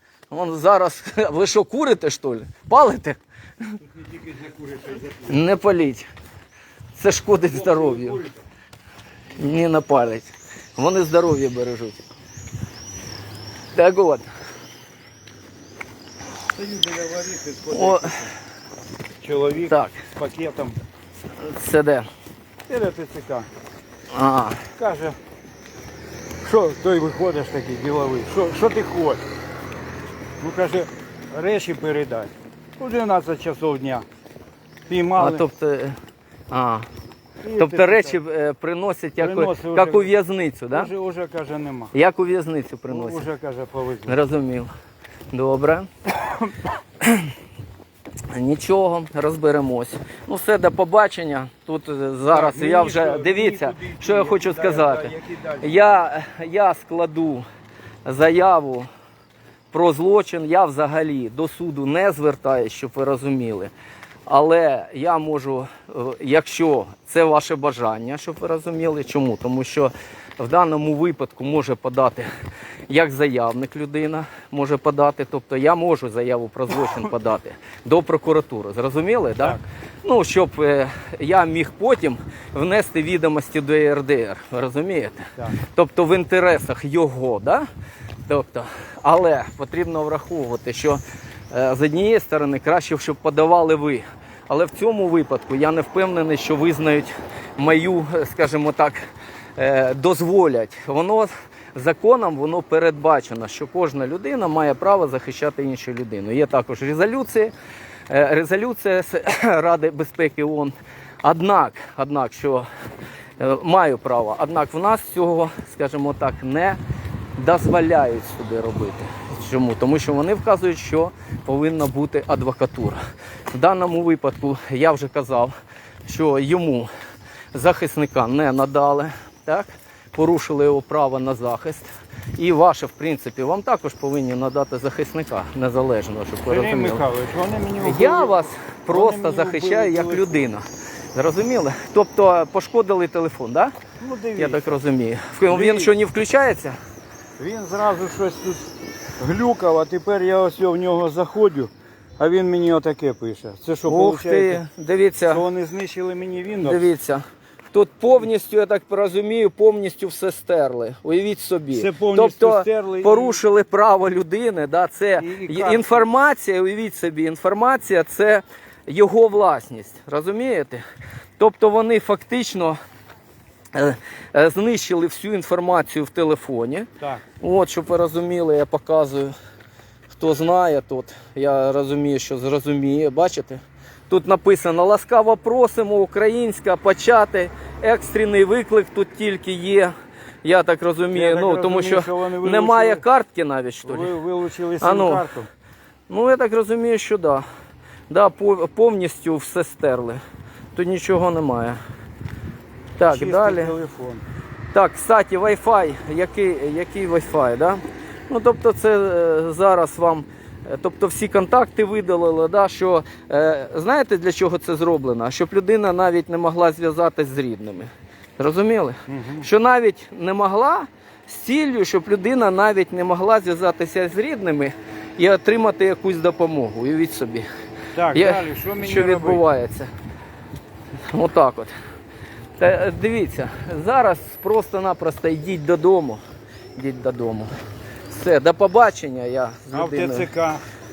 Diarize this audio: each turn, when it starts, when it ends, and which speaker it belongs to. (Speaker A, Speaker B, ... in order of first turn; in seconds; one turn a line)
Speaker A: 0.3-3.7
Speaker B: 3.8-5.4
Speaker A: 5.3-6.1
Speaker A: 7.0-8.2
Speaker B: 7.5-8.4
Speaker A: 9.4-12.0
Speaker A: 13.7-14.3
Speaker B: 16.5-18.4
Speaker A: 17.7-18.2
Speaker B: 19.2-20.8
Speaker A: 19.7-20.0
Speaker A: 21.4-22.1
Speaker B: 22.7-23.5
Speaker A: 24.1-24.6
Speaker B: 24.8-25.2
Speaker B: 26.4-29.2
Speaker B: 30.4-34.0
Speaker B: 34.9-35.5
Speaker A: 35.2-36.0
Speaker A: 36.5-36.9
Speaker B: 37.4-38.2
Speaker A: 37.6-40.9
Speaker B: 39.2-40.1
Speaker B: 40.7-41.9
Speaker A: 41.9-43.3
Speaker B: 42.9-44.2
Speaker A: 44.1-44.7
Speaker A: 45.3-45.9
Speaker A: 47.0-47.3
Speaker A: 48.3-57.4
Speaker B: 52.3-55.8
Speaker A: 58.0-58.9
Speaker A: 59.7-63.7
Speaker A: 64.3-72.3
Speaker A: 72.9-87.7
Speaker A: 88.3-107.5
Speaker A: 108.1-112.7
Speaker A: 113.4-116.8
Speaker A: 117.4-125.5
Speaker A: 126.1-126.9
Speaker A: 127.5-137.1
Speaker B: 136.5-140.4
Speaker A: 137.8-143.8
Speaker B: 144.0-144.8
Speaker A: 144.4-146.8
Speaker B: 145.5-145.9
Speaker B: 147.4-154.6
Speaker A: 153.8-155.5
Speaker B: 155.3-156.9
Speaker A: 156.6-170.8
Speaker B: 161.7-163.4
Speaker B: 165.2-166.1
Speaker A: 171.4-172.8
Speaker A: 173.7-176.9
Speaker A: 177.4-179.3
Speaker A: 180.1-194.2
Speaker B: 191.1-193.0
Speaker B: 193.8-195.5
Speaker A: 194.8-195.3
Speaker A: 196.1-197.4
Speaker A: 198.1-200.2
Speaker A: 200.8-201.8
Speaker A: 203.0-203.7
Speaker B: 203.1-204.2
Speaker A: 204.7-227.5
Speaker B: 219.1-219.5
Speaker B: 227.9-229.4
Speaker A: 228.1-229.9
Speaker A: 231.1-231.7
Speaker A: 232.6-236.2
Speaker A: 236.8-237.5
Speaker A: 238.1-240.3
Speaker B: 239.7-240.6